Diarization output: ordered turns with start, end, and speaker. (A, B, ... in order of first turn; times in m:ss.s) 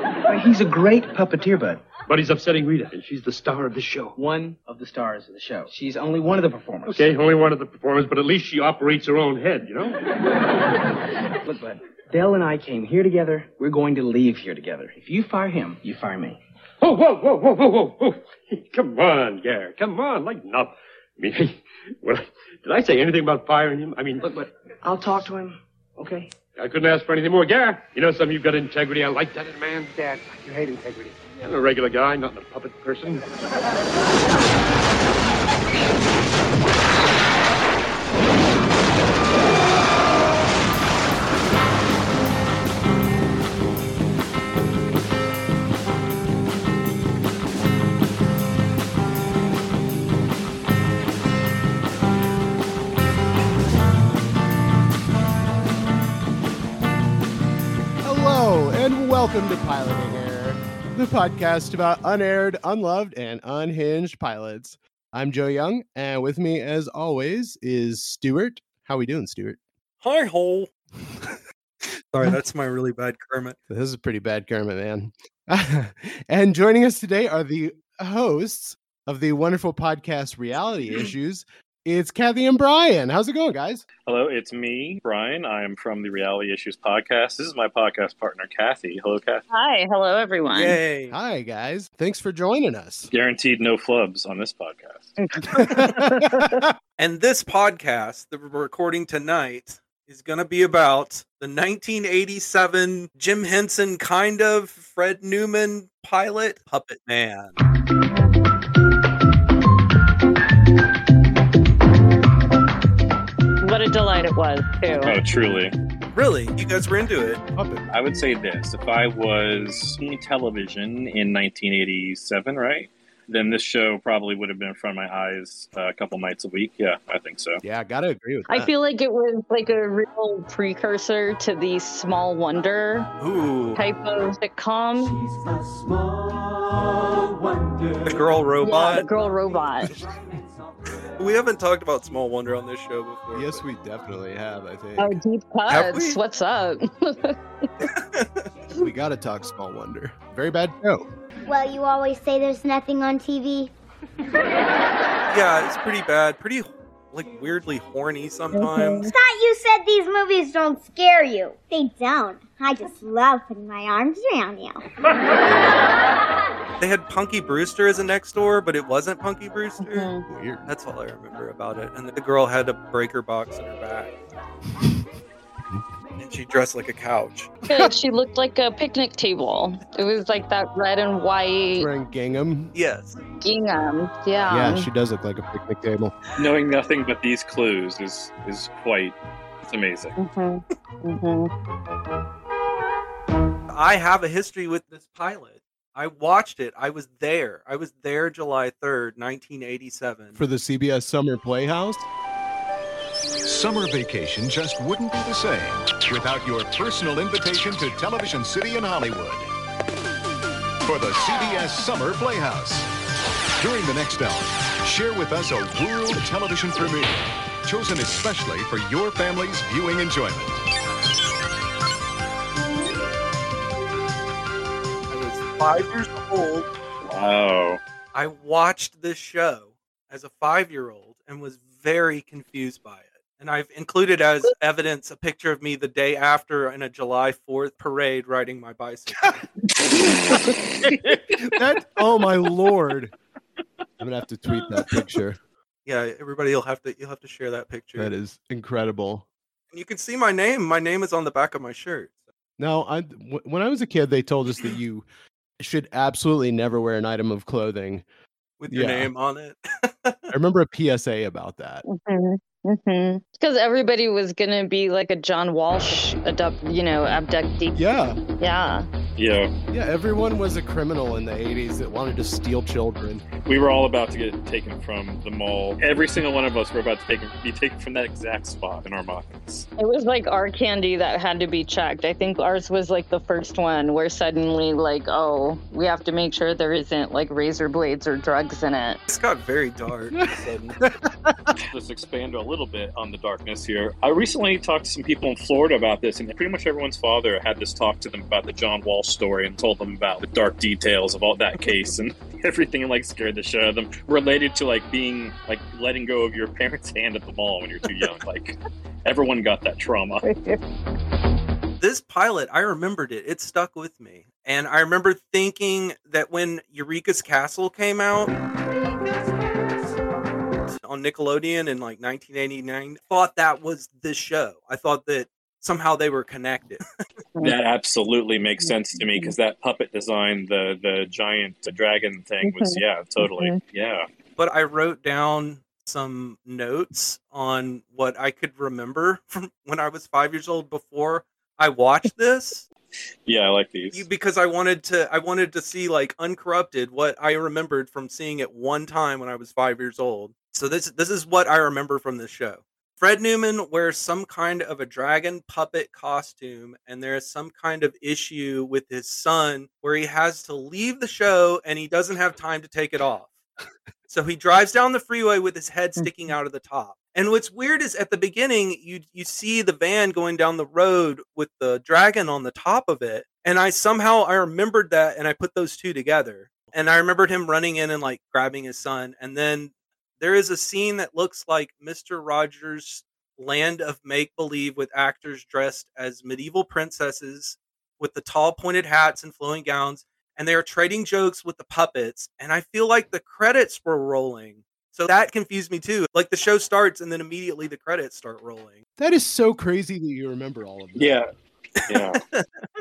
0:00.3-0:01.8 A
0:02.1-0:04.1 B
0:03.6-0:07.1 A
0:06.9-0:10.0 B
0:11.4-0:16.4 A
0:16.8-0:24.5 B
0:24.8-0:26.3 A
0:26.6-0:33.2 B
0:58.0-1:09.6 C
1:10.0-1:10.7 D
1:12.1-1:13.6 D
1:13.7-1:23.8 C
1:24.1-1:29.4 E
1:29.5-1:30.8 F
1:30.5-1:31.2 D
1:31.1-1:33.1 C
1:33.1-1:35.1 E
1:35.2-1:36.6 F
1:35.6-1:36.7 C
1:37.0-1:47.6 D
1:53.6-1:55.1 F
1:55.0-1:55.8 E
1:56.1-1:57.4 D
1:57.6-1:57.9 C
1:57.9-2:07.6 E
2:07.6-2:08.7 C
2:08.5-2:13.1 F
2:13.2-2:13.8 D
2:13.8-2:15.3 F
2:18.0-2:19.1 D
2:18.6-2:19.9 F
2:19.8-2:20.2 C
2:21.2-2:23.6 D
2:23.3-2:25.2 C
2:25.0-2:27.4 F
2:25.7-2:26.2 D
2:27.8-2:28.5 D
2:28.7-2:31.1 C
2:31.5-2:33.7 G
2:35.3-2:39.1 D
2:38.6-2:39.1 F
2:39.1-2:44.8 G
2:46.8-2:50.1 D
2:49.9-2:50.2 F
2:50.3-2:50.7 C
2:50.7-2:54.2 D
2:54.8-2:55.0 C
2:56.2-2:57.5 D
2:57.7-3:01.9 F
3:01.8-3:02.7 C
3:02.7-3:03.2 D
3:03.4-3:04.9 F
3:04.5-3:06.1 C
3:06.4-3:10.1 E
3:10.2-3:11.5 F
3:13.7-3:20.4 D
3:20.4-3:22.0 C
3:23.4-3:29.5 H
3:30.9-3:32.9 H
3:33.6-3:40.6 H
3:45.1-3:46.7 D
3:47.0-3:47.8 E
3:48.1-3:59.4 D
4:00.8-4:03.1 C
4:04.0-4:05.4 C
4:05.9-4:08.1 D
4:08.0-4:09.3 C
4:09.7-4:12.2 D
4:12.6-4:15.1 C
4:15.6-4:18.0 C
4:18.6-4:20.3 D
4:18.7-4:19.1 C
4:20.3-4:21.8 C
4:21.9-4:27.8 F
4:27.8-4:28.2 C
4:28.4-4:28.9 F
4:29.2-4:29.5 E
4:29.7-4:33.2 C
4:33.4-4:39.7 E
4:39.8-4:49.0 F
4:49.1-4:50.8 D
4:50.8-4:51.5 C
4:51.7-5:10.2 E
5:10.2-5:10.6 F
5:11.8-5:18.3 D
5:20.7-5:26.8 D
5:27.4-5:34.1 E
5:28.6-5:29.3 F
5:32.4-5:33.6 F
5:34.4-5:42.6 D
5:43.3-5:44.1 E
5:43.9-6:03.3 D
6:04.1-6:38.8 D
6:39.0-6:41.2 C
6:41.0-6:41.3 E
6:41.9-6:42.2 E
6:41.9-6:42.5 D